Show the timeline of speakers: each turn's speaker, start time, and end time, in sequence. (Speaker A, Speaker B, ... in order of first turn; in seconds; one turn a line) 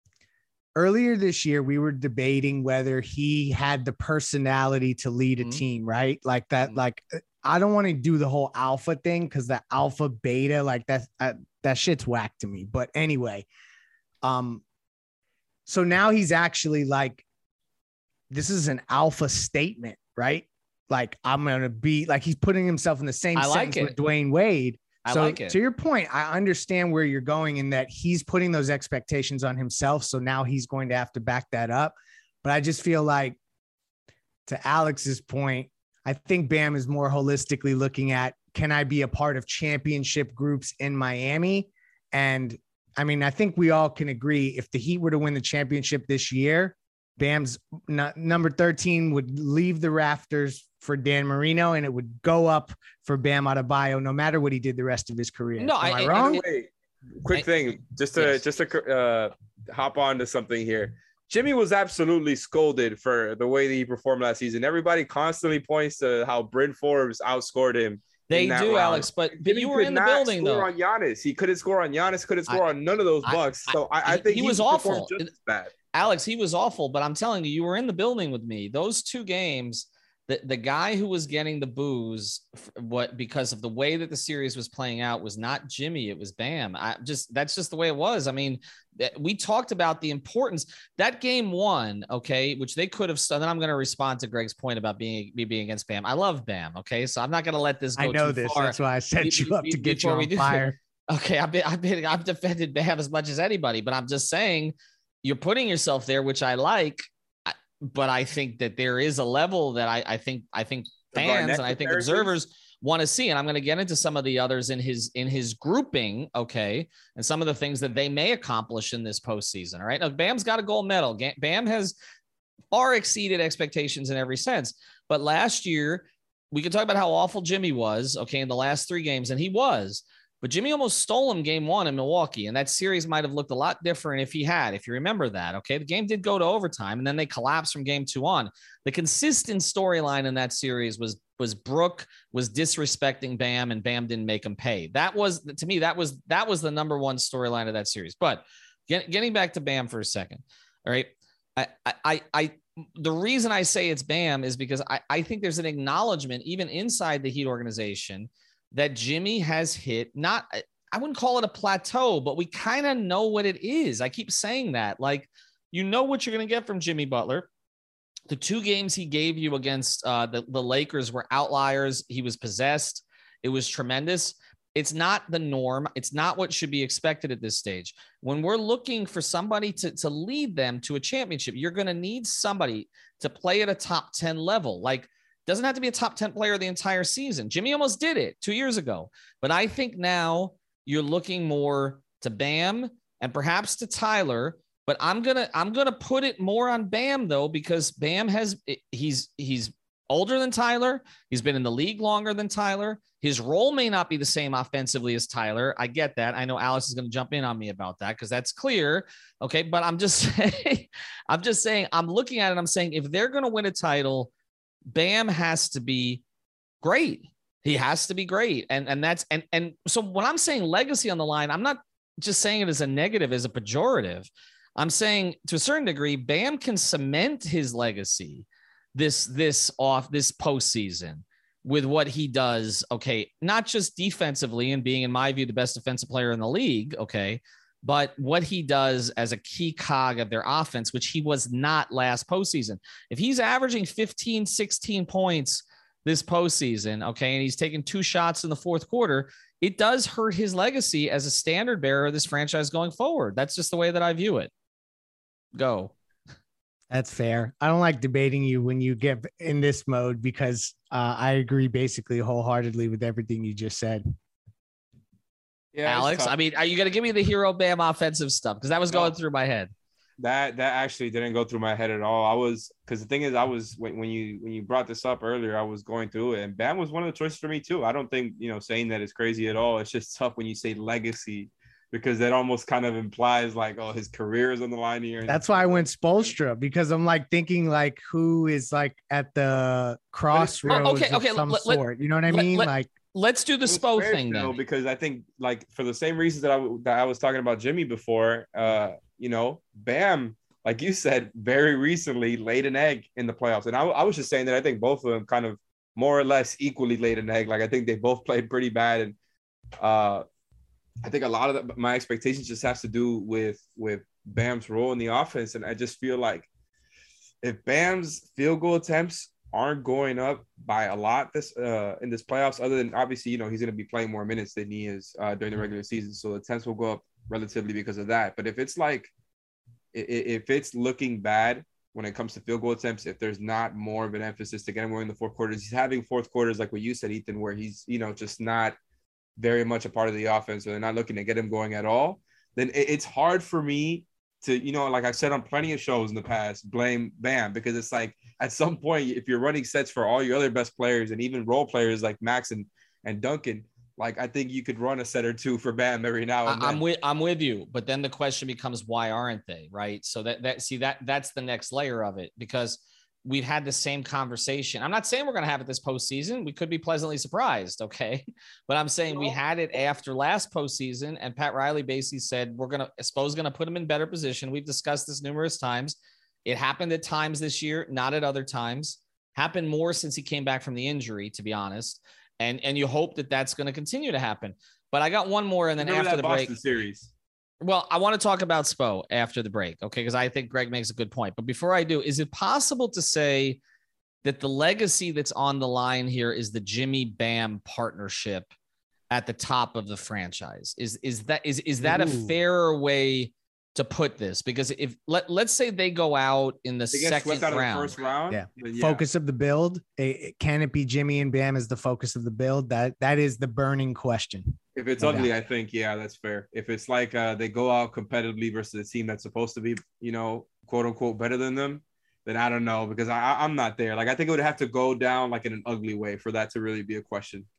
Speaker A: 0.8-13.5
Speaker B: 5.4-5.6
Speaker A: 14.2-14.6
Speaker A: 15.7-17.2
Speaker A: 18.3-33.4
Speaker B: 23.4-24.0
Speaker B: 25.0-25.6
Speaker A: 34.5-56.4
Speaker B: 55.6-56.4
Speaker C: 56.1-56.7
Speaker C: 57.2-75.7
Speaker B: 58.1-58.4
Speaker B: 68.3-70.7
Speaker B: 73.2-75.3
Speaker B: 75.9-121.9
Speaker A: 98.0-100.8
Speaker C: 111.1-112.3
Speaker B: 122.7-167.5
Speaker B: 168.3-214.3
Speaker B: 214.9-216.2
Speaker B: 216.8-254.5
Speaker B: 255.6-255.9
Speaker A: 256.9-264.1
Speaker C: 265.7-266.4
Speaker B: 265.9-269.7
Speaker C: 270.2-285.9
Speaker A: 285.3-292.9
Speaker C: 290.3-290.9
Speaker B: 290.7-294.6
Speaker C: 293.7-309.1
Speaker C: 309.8-310.2
Speaker C: 311.0-316.5
Speaker C: 317.4-329.1
Speaker C: 329.9-338.8
Speaker C: 339.4-356.8
Speaker B: 356.4-386.6
Speaker C: 369.1-369.4
Speaker C: 385.8-387.1
Speaker B: 387.6-393.6
Speaker B: 394.2-398.5
Speaker B: 399.1-407.9
Speaker A: 401.8-402.4
Speaker C: 406.9-409.0
Speaker A: 408.3-415.3
Speaker C: 414.8-427.5